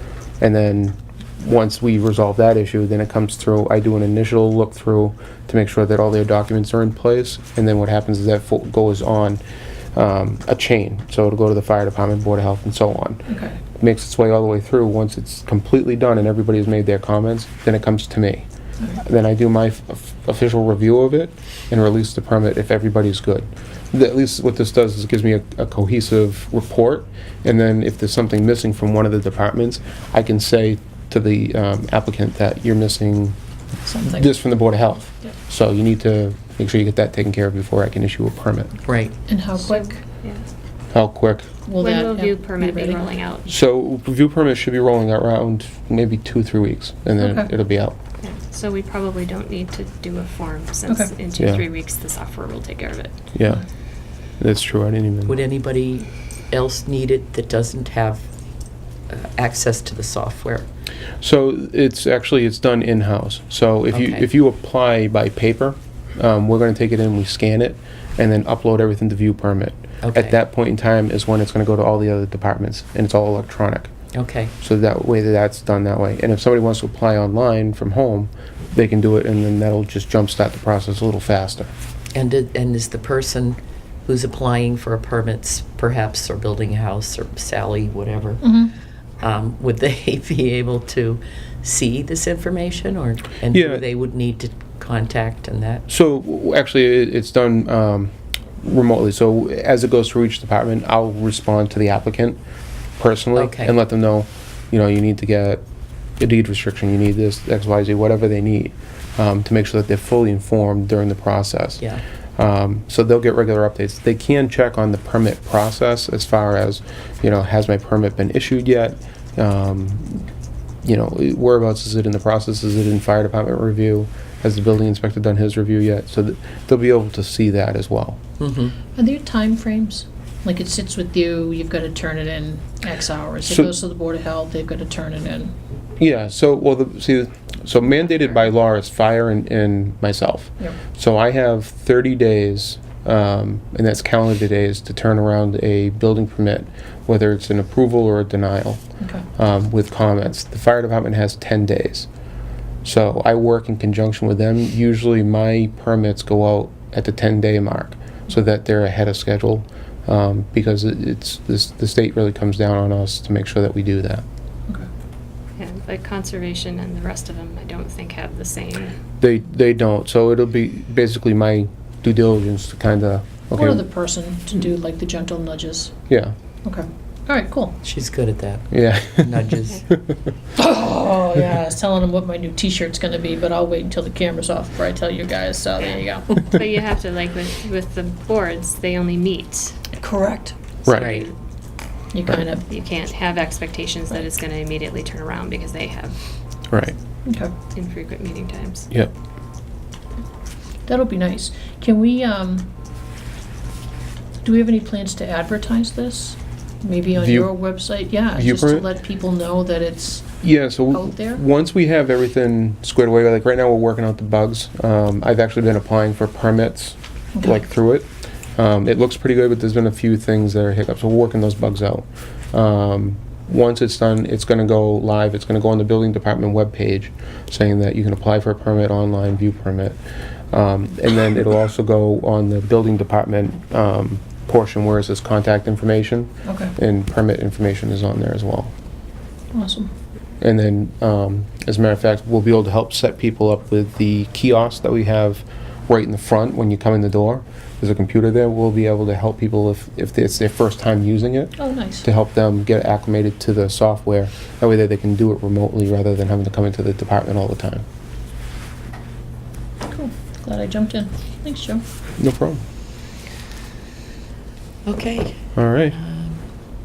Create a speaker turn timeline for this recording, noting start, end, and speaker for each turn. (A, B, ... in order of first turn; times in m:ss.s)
0:00.4-0:09.4 A
0:09.9-0:18.5 A
0:13.3-0:13.6 B
0:19.0-0:33.4 A
0:33.9-0:34.3 B
0:34.0-0:38.8 A
0:38.9-0:39.2 C
0:39.3-0:40.0 B
0:39.6-0:40.5 D
0:40.9-0:41.5 A
0:41.7-0:43.0 B
0:41.8-0:43.4 D
0:43.5-0:48.0 A
0:47.2-0:47.5 B
0:48.2-0:53.1 D
0:51.4-0:51.6 A
0:53.3-0:53.6 A
0:54.4-0:55.4 A
0:55.3-0:58.3 C
0:59.1-1:00.7 C
1:01.2-1:13.9 A
1:03.9-1:04.3 C
1:10.0-1:10.4 C
1:14.1-1:14.5 C
1:14.6-1:21.7 A
1:22.1-1:28.5 C
1:28.4-1:28.7 B
1:29.2-1:35.9 C
1:33.5-1:33.8 A
1:35.9-1:42.4 A
1:43.0-1:45.6 A
1:43.4-1:43.8 C
1:46.2-1:51.8 A
1:52.4-2:00.2 A
2:00.8-2:08.2 A
2:08.4-2:08.8 C
2:09.0-2:15.5 B
2:13.4-2:13.7 A
2:16.0-2:28.8 A
2:29.0-2:29.2 B
2:29.4-2:32.1 A
2:32.8-2:44.2 A
2:45.6-2:49.0 D
2:49.2-2:53.8 A
2:53.6-2:55.9 B
2:56.1-2:56.4 A
2:56.6-2:57.8 B
2:57.8-2:59.8 C
2:58.7-3:00.2 A
3:00.6-3:06.4 B
3:05.8-3:09.8 D
3:10.0-3:10.6 B
3:10.9-3:11.2 A
3:10.9-3:11.3 D
3:10.9-3:11.3 C
3:12.1-3:12.7 B
3:12.7-3:16.2 D
3:16.7-3:17.0 A
3:17.3-3:17.5 B
3:17.8-3:18.9 D
3:20.9-3:22.7 B
3:24.4-3:30.4 B
3:27.2-3:27.6 A
3:28.3-3:28.8 A
3:30.4-3:50.0 A
3:30.9-3:31.4 B
3:37.4-3:37.6 B
3:50.5-3:58.7 A
3:56.5-3:56.7 B
3:59.5-3:59.9 B
4:00.4-4:17.8 A
4:11.6-4:12.1 B
4:19.9-4:21.8 B
4:22.2-4:22.6 A
4:24.9-4:26.4 C
4:25.6-4:26.0 A